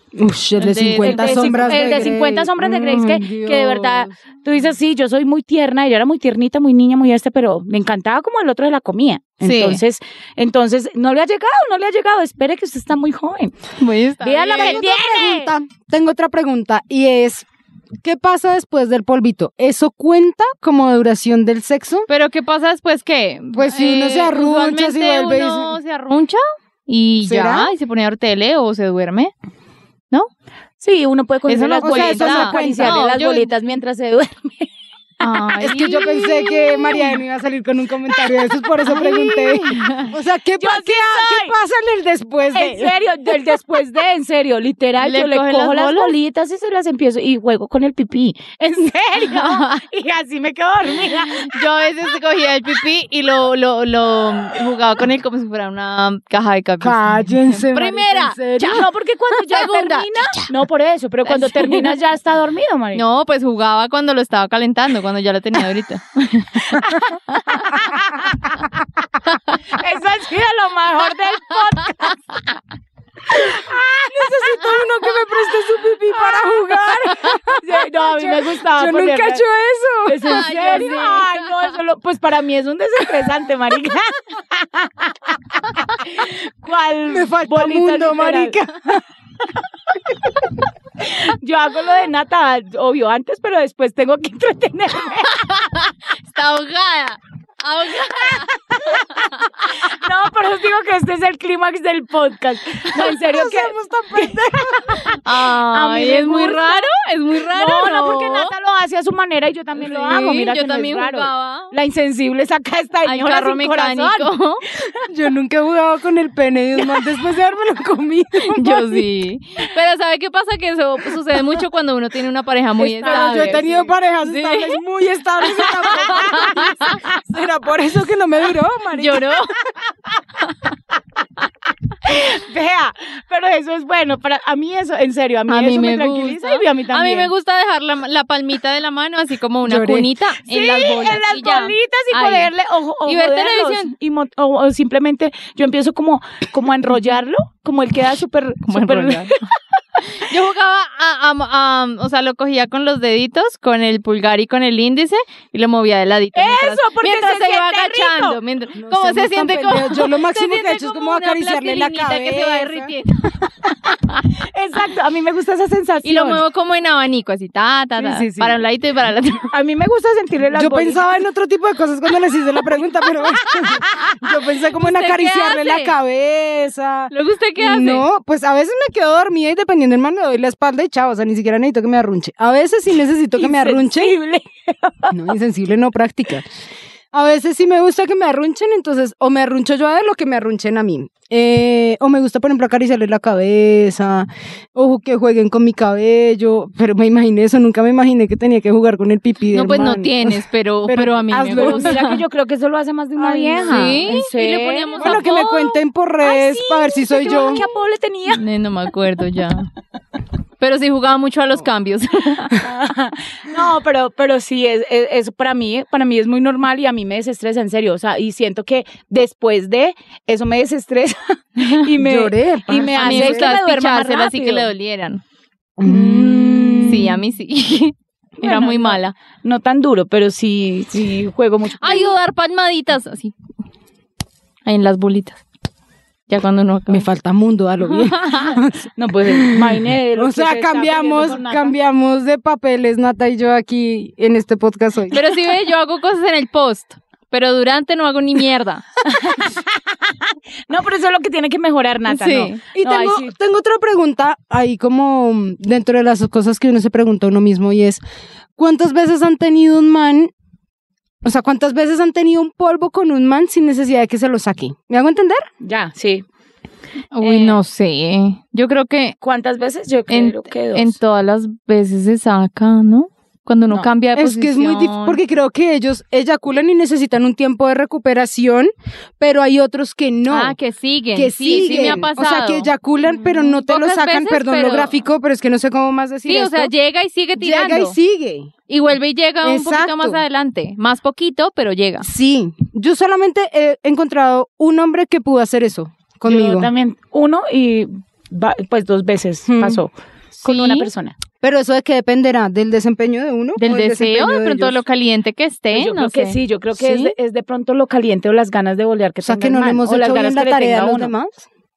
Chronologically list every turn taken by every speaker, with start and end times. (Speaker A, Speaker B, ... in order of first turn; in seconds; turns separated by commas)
Speaker A: 0.2-4.1, Speaker B: 0.6-2.1, Speaker C: 1.0-13.6, Speaker B: 9.4-9.8, Speaker B: 13.8-14.8, Speaker C: 14.2-15.5, Speaker A: 14.6-17.5, Speaker A: 18.0-22.1, Speaker B: 22.1-29.3, Speaker A: 23.6-25.8, Speaker A: 27.2-27.7, Speaker C: 30.8-34.7, Speaker B: 31.5-33.5, Speaker A: 31.8-33.0, Speaker B: 35.2-37.1, Speaker A: 35.6-43.0, Speaker B: 38.9-40.1, Speaker C: 40.6-41.5, Speaker C: 42.5-51.6, Speaker B: 45.0-46.1, Speaker B: 49.2-49.8, Speaker B: 51.2-58.4, Speaker A: 56.8-58.9, Speaker C: 58.6-63.0, Speaker B: 59.5-60.0, Speaker A: 59.6-60.0, Speaker B: 61.3-61.9, Speaker B: 63.0-67.8, Speaker C: 67.7-68.4, Speaker C: 69.7-72.2, Speaker C: 73.4-74.7, Speaker A: 74.1-81.0, Speaker C: 76.1-76.9, Speaker C: 77.6-79.4, Speaker C: 80.1-88.6, Speaker B: 80.2-81.7, Speaker A: 87.1-89.0, Speaker C: 91.0-95.5, Speaker B: 95.4-99.5, Speaker C: 98.1-114.3, Speaker A: 103.0-105.0, Speaker B: 105.0-108.5, Speaker B: 109.8-111.7, Speaker B: 113.0-114.6, Speaker A: 115.1-119.1, Speaker B: 118.5-124.8, Speaker A: 122.8-129.4, Speaker C: 123.0-123.9, Speaker B: 125.9-127.0, Speaker B: 128.9-129.6, Speaker C: 132.0-137.3, Speaker B: 135.5-142.5, Speaker A: 139.7-140.1, Speaker C: 140.5-149.4, Speaker B: 143.1-143.9, Speaker B: 148.7-149.5, Speaker B: 150.0-163.4, Speaker C: 156.3-158.4, Speaker A: 158.8-162.9, Speaker C: 164.3-166.4, Speaker B: 166.0-169.5, Speaker C: 168.0-168.6, Speaker C: 169.5-171.0, Speaker A: 170.5-184.2, Speaker B: 174.7-175.9, Speaker B: 177.1-178.1, Speaker C: 183.4-185.2, Speaker A: 185.1-186.5, Speaker A: 187.1-202.0, Speaker B: 199.5-202.2, Speaker C: 201.6-205.3, Speaker A: 203.2-204.1, Speaker B: 203.6-205.8, Speaker A: 205.0-207.6, Speaker C: 206.2-208.4, Speaker B: 208.3-209.7, Speaker B: 210.6-212.6, Speaker C: 212.6-224.7, Speaker A: 222.0-223.5, Speaker B: 222.8-225.2, Speaker A: 225.8-227.2, Speaker C: 225.8-227.1, Speaker B: 226.9-229.2, Speaker C: 228.4-232.2, Speaker B: 231.8-233.3, Speaker B: 234.7-235.4, Speaker B: 236.3-237.1, Speaker A: 236.9-245.2, Speaker B: 237.9-238.6, Speaker C: 239.0-241.8, Speaker B: 245.1-248.8, Speaker C: 249.1-250.2, Speaker C: 250.7-253.3, Speaker B: 252.1-252.6, Speaker A: 252.7-258.0, Speaker A: 258.6-260.3, Speaker A: 261.2-265.4, Speaker C: 265.6-266.2, Speaker B: 267.1-269.1, Speaker C: 267.2-267.6, Speaker C: 269.2-271.0, Speaker B: 270.1-275.2, Speaker A: 274.2-280.6, Speaker B: 280.3-285.0, Speaker A: 281.1-286.7, Speaker B: 286.3-288.0, Speaker A: 287.4-288.5, Speaker B: 288.7-292.1, Speaker A: 289.4-290.2, Speaker A: 292.0-296.7, Speaker C: 296.3-301.2, Speaker A: 299.5-299.8, Speaker B: 300.4-300.9, Speaker A: 301.4-304.8, Speaker B: 303.6-306.4, Speaker C: 305.7-311.1, Speaker A: 306.8-307.1, Speaker A: 309.2-311.5